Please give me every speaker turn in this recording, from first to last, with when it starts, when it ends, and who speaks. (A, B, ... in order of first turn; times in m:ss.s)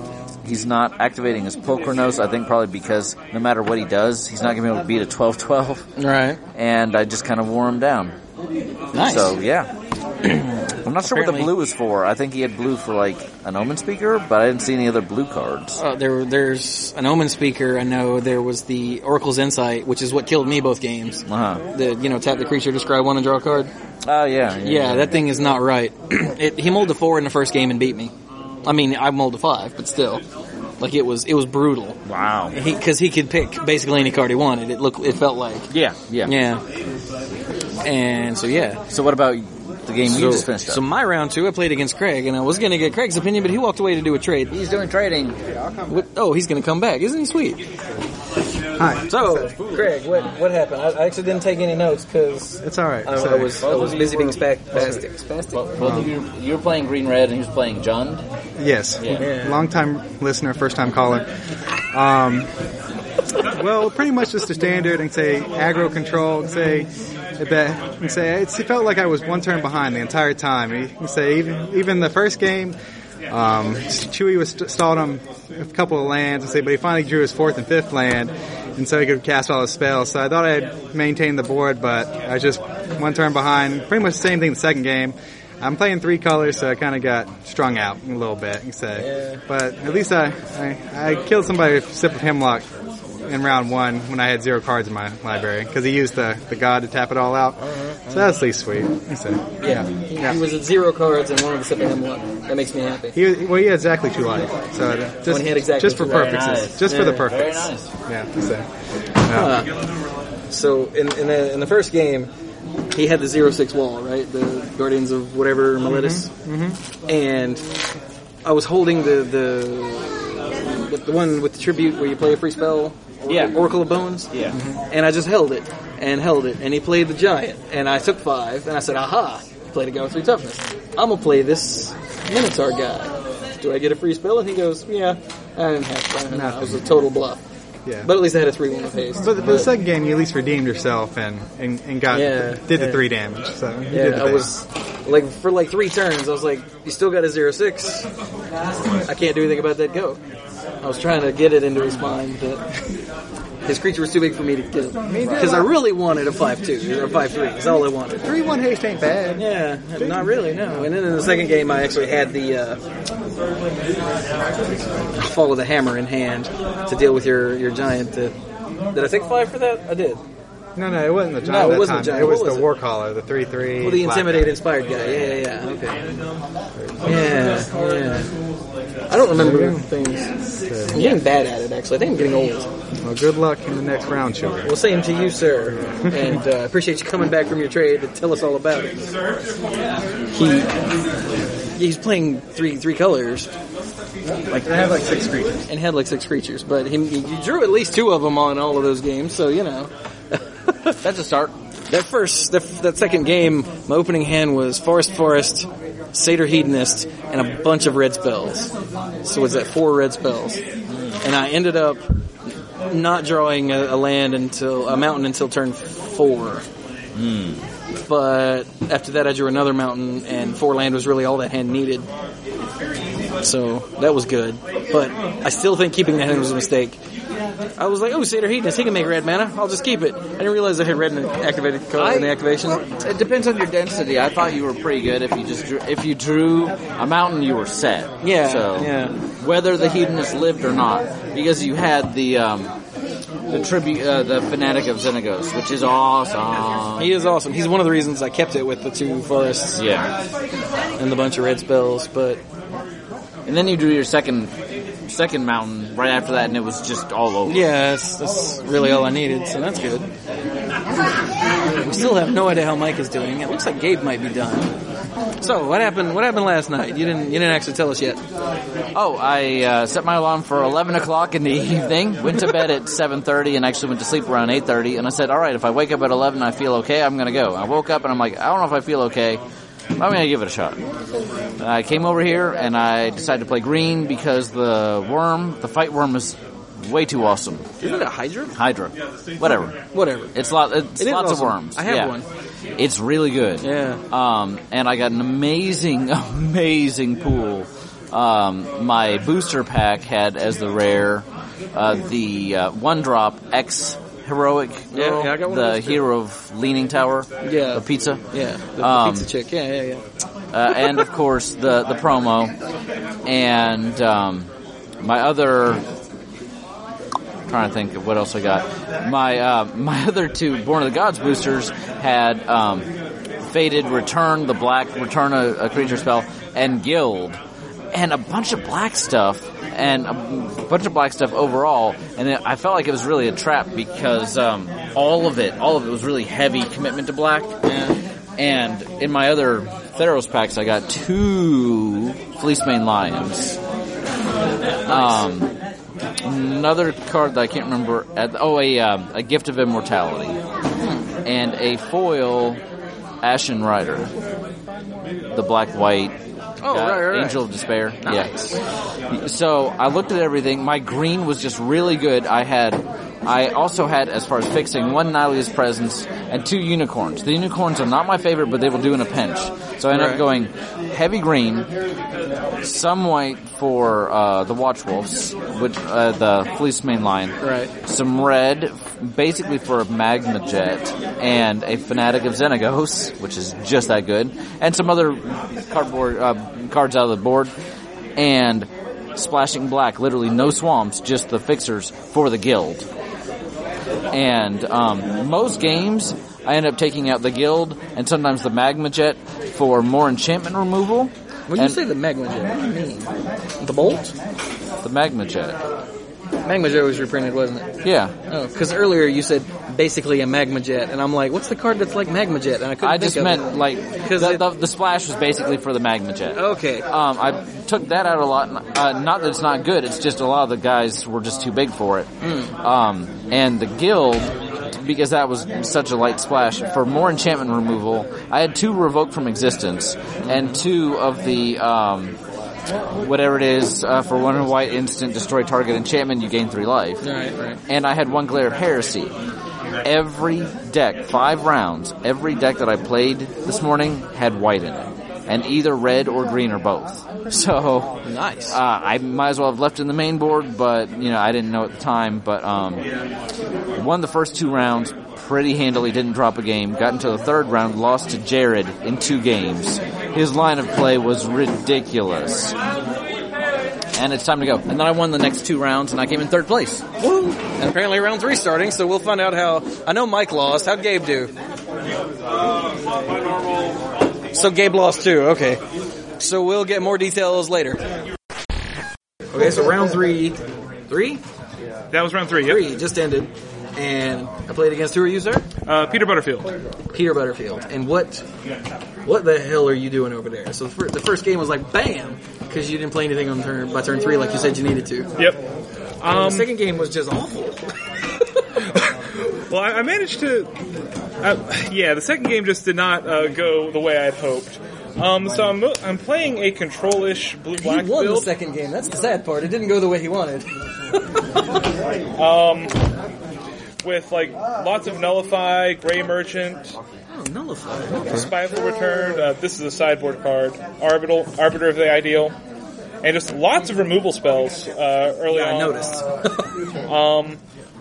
0:00.4-0:05.9 A
0:06.0-0:06.4 B
0:06.5-0:08.2 A
0:08.9-0:09.4 B
0:09.0-0:09.7 A
0:10.8-0:15.8 A
0:11.0-0:11.5 B
0:15.8-0:23.7 B
0:21.3-0:21.6 A
0:24.0-0:25.2 A
0:24.6-0:28.1 B
0:28.6-0:30.2 B
0:30.8-0:32.0 B
0:32.0-0:32.6 A
0:32.5-0:35.7 B
0:35.7-0:36.3 A
0:36.3-0:36.6 B
0:37.8-0:38.8 B
0:38.9-0:40.8 A
0:40.1-0:44.5 B
0:44.5-0:45.4 A
0:45.9-0:47.6 B
0:48.8-0:49.5 C
0:49.1-0:55.6 B
0:49.6-0:49.9 A
0:52.6-0:53.7 C
0:53.6-0:54.4 A
0:55.5-0:58.2 A
0:55.8-0:56.1 C
0:58.6-1:01.3 C
0:59.2-0:59.6 B
1:01.9-1:02.5 C
1:03.5-1:12.8 C
1:13.3-1:32.7 C
1:33.3-1:40.4 C
1:37.6-1:38.4 A
1:39.6-1:43.2 B
1:43.2-1:48.7 C
1:45.3-1:47.2 B
1:46.0-1:47.9 A
1:49.2-1:49.6 C
1:49.3-1:49.7 B
1:50.5-1:52.3 B
1:52.9-1:56.3 B
1:55.9-1:56.8 C
1:57.1-1:57.6 B
1:58.4-2:17.4 B
2:03.3-2:03.6 A
2:04.3-2:04.6 A
2:16.3-2:16.9 C
2:17.9-2:18.1 C
2:18.0-2:19.7 B
2:19.2-2:24.5 C
2:22.1-2:23.1 B
2:23.9-2:28.1 B
2:29.0-2:30.2 B
2:30.8-2:32.6 B
2:33.6-2:38.3 B
2:35.1-2:35.7 C
2:35.2-2:35.6 A
2:38.2-2:40.9 C
2:39.4-2:42.8 B
2:45.2-2:48.4 B
2:48.9-2:50.2 B
2:50.8-2:54.6 C
2:51.4-2:52.7 B
2:53.8-2:56.0 B
2:56.8-2:57.2 C
2:57.0-2:58.3 B
2:59.1-3:00.3 B
2:59.3-2:59.9 C
3:00.7-3:01.2 C
3:00.9-3:02.7 B
3:03.0-3:04.8 C
3:04.6-3:09.0 B
3:06.1-3:06.4 C
3:10.3-3:10.7 B
3:11.8-3:13.5 B
3:14.5-3:15.6 C
3:15.7-3:20.9 B
3:21.0-3:21.5 A
3:21.9-3:28.7 B
3:29.2-3:30.6 B
3:30.9-3:31.2 A
3:31.2-3:32.0 B
3:32.9-3:36.6 B
3:37.2-3:37.6 A
3:38.0-3:42.1 B
3:43.4-3:47.0 B
3:47.8-3:52.8 B
3:52.0-4:02.7 A
3:58.2-3:59.2 B
4:03.5-4:07.1 A
4:07.0-4:09.8 B
4:09.8-4:10.1 A
4:11.0-4:12.4 B
4:13.5-4:14.5 A
4:15.1-4:17.6 A
4:17.5-4:20.1 B
4:21.8-4:24.7 B
4:25.4-4:28.2 B
4:28.9-4:39.4 A
4:40.0-4:40.8 A
4:41.6-4:47.7 A
4:47.8-4:48.6 B
4:48.6-4:49.8 A
4:49.9-4:50.4 B
4:50.4-4:52.2 A
4:51.0-4:52.2 B
4:52.8-5:08.2 A
4:53.6-4:54.0 B
5:04.9-5:06.1 B
5:07.4-5:10.0 B
5:08.8-5:09.3 A
5:10.5-5:12.5 A
5:13.3-5:14.5 A
5:15.0-5:15.8 A
5:17.5-5:22.9 A
5:23.5-5:27.4 A
5:27.9-5:37.6 A
5:37.7-5:38.0 B
5:38.4-5:43.6 A
5:44.9-5:45.5 A
5:44.9-5:45.2 B
5:46.2-5:50.4 A
5:51.2-5:52.6 A
5:53.2-5:54.1 A
5:55.3-5:56.2 A
5:56.6-5:57.5 B
5:56.7-5:58.3 A
5:58.0-5:58.6 B
5:59.1-6:11.7 A
6:09.9-6:10.2 B
6:12.6-6:27.5 A
6:17.4-6:17.7 B
6:28.2-6:32.9 A
6:34.1-6:41.8 A
6:41.5-6:44.1 B
6:44.8-6:45.6 A
6:46.4-6:47.7 B
6:47.8-6:48.1 A
6:48.3-6:54.5 B
6:52.8-7:12.2 A
6:56.3-6:56.9 B
7:02.2-7:02.5 B
7:10.3-7:10.6 B
7:13.0-7:17.0 A
7:17.0-7:17.6 B
7:17.7-7:19.1 A
7:19.8-7:27.9 A
7:28.0-7:28.6 B
7:28.5-7:32.8 A
7:33.8-7:42.5 A
7:44.0-7:46.8 A
7:47.0-7:51.3 B
7:54.3-7:55.6 B
7:56.2-7:57.8 B
7:59.3-8:01.2 B
8:01.9-8:02.7 D
8:02.4-8:05.5 B
8:05.6-8:06.5 D
8:06.9-8:08.2 B
8:09.0-8:15.1 B
8:16.0-8:16.5 D
8:16.1-8:17.6 B
8:19.5-8:20.5 D
8:21.2-8:28.3 D
8:27.6-8:31.2 B
8:32.2-8:32.7 D
8:33.8-8:36.8 D
8:37.1-8:38.4 B
8:38.1-8:42.3 D
8:43.0-8:45.8 D
8:45.3-8:46.6 B
8:46.9-8:47.4 D